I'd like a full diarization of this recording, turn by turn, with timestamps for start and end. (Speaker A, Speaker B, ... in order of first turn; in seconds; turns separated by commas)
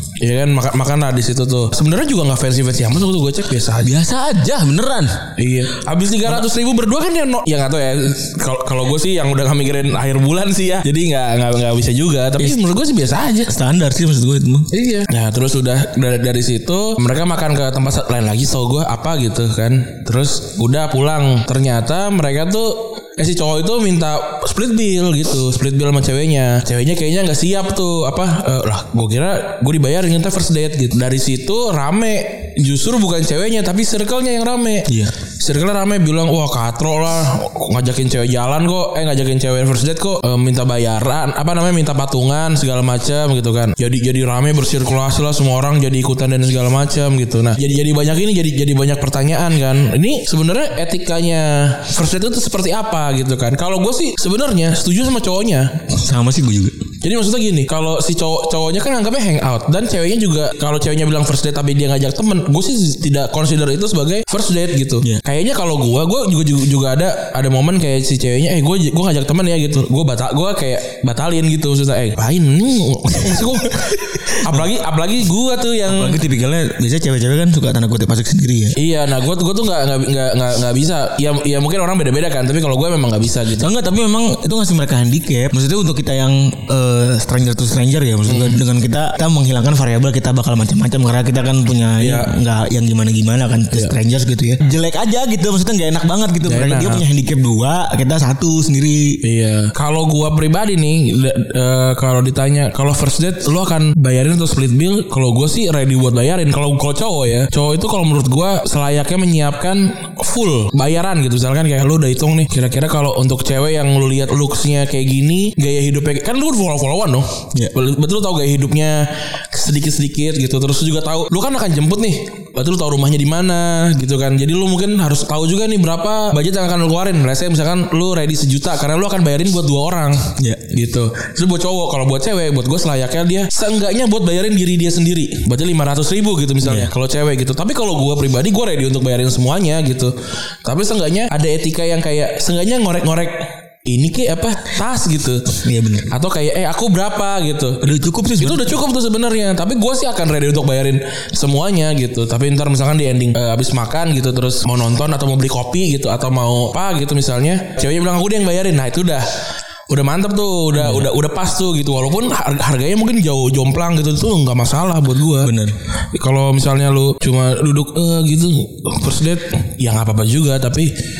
Speaker A: 0.2-3.9, Speaker B: 3.8-5.3, Speaker A: 5.4-13.5, Speaker B: 13.5-14.7, Speaker A: 14.7-34.9, Speaker B: 34.9-35.1, Speaker A: 35.4-55.7, Speaker B: 55.9-56.8, Speaker A: 57.0-76.2, Speaker B: 73.3-74.7, Speaker B: 75.8-78.8, Speaker A: 78.8-83.7, Speaker B: 83.6-99.2, Speaker A: 88.3-88.6, Speaker A: 92.0-92.3, Speaker A: 96.4-97.0, Speaker A: 99.2-145.6, Speaker B: 130.4-130.7, Speaker B: 136.6-136.9, Speaker B: 145.6-146.1, Speaker A: 146.1-159.3, Speaker B: 147.8-148.8, Speaker A: 159.9-165.5, Speaker B: 160.7-161.1, Speaker B: 165.4-165.8, Speaker A: 166.1-170.9